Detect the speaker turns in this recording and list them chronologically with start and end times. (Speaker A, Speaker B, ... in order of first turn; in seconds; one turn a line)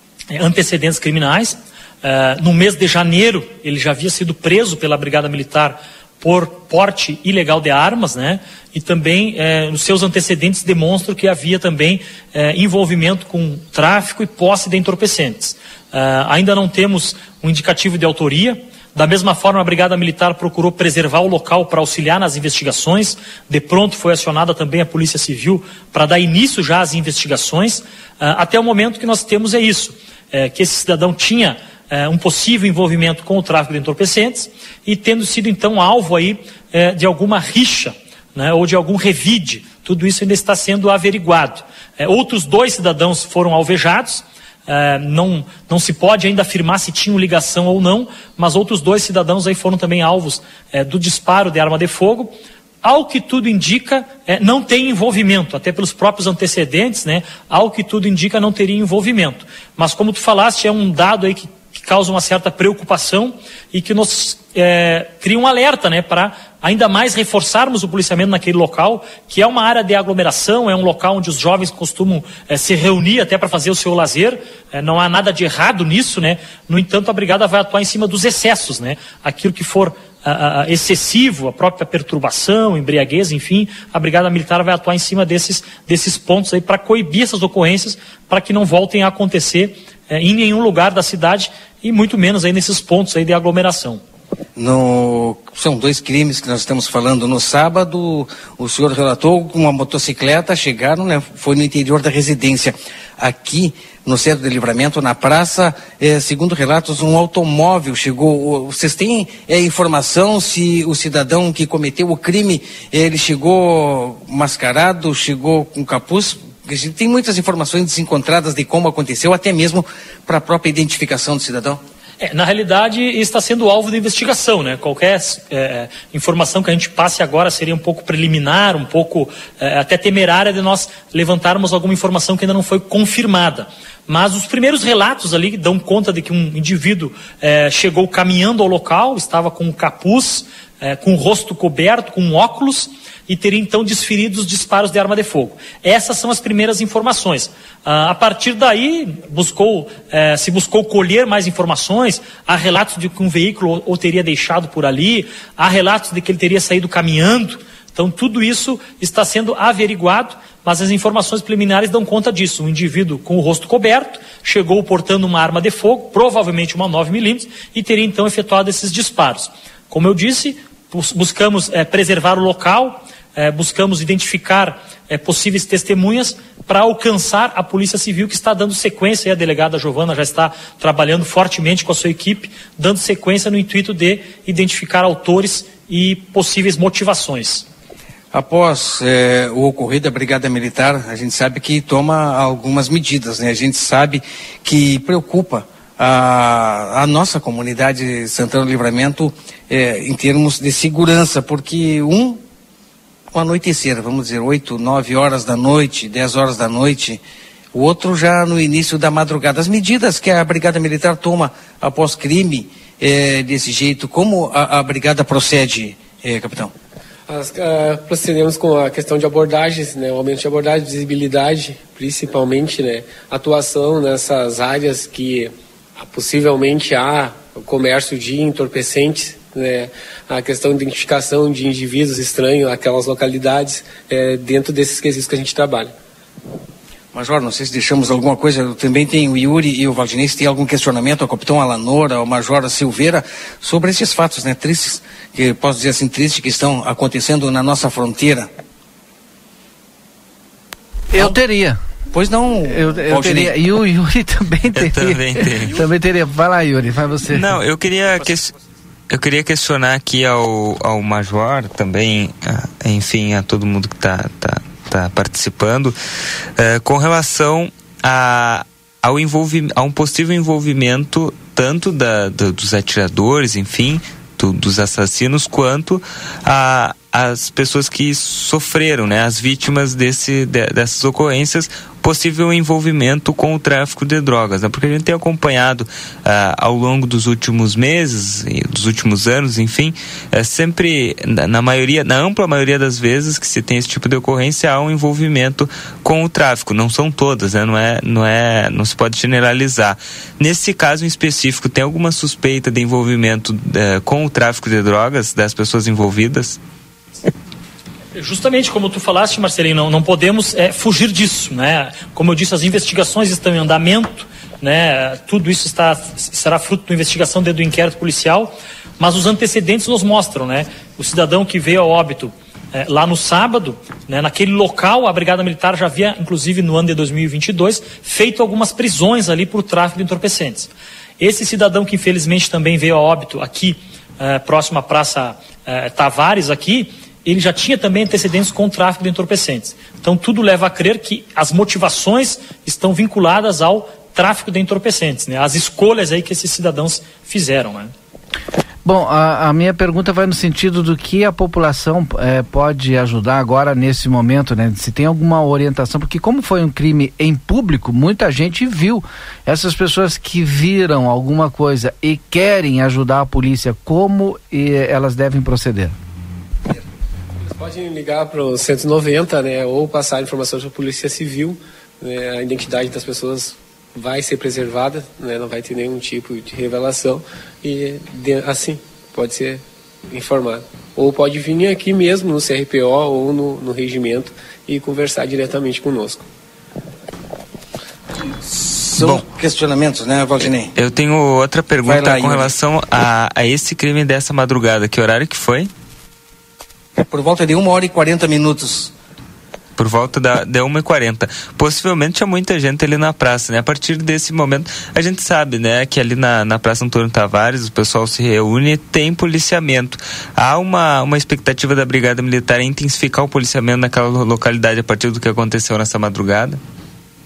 Speaker A: 0.3-94.0
Speaker B: 94.6-121.8
Speaker A: 122.2-187.7
Speaker B: 188.3-202.4
Speaker B: 203.3-207.2
Speaker B: 207.7-216.7
Speaker C: 217.3-235.9
Speaker B: 237.1-248.5
Speaker D: 251.1-251.8
Speaker B: 252.1-253.5
Speaker D: 252.7-257.6
Speaker E: 254.8-255.8
Speaker E: 257.3-258.5
Speaker E: 259.1-265.9
Speaker E: 266.6-306.6
Speaker A: 308.1-347.9
Speaker D: 348.9-365.9
Speaker C: 367.4-386.2
Speaker B: 388.4-390.7
Speaker E: 390.7-395.7
Speaker B: 391.9-392.5
Speaker B: 397.0-398.9
Speaker E: 399.8-416.6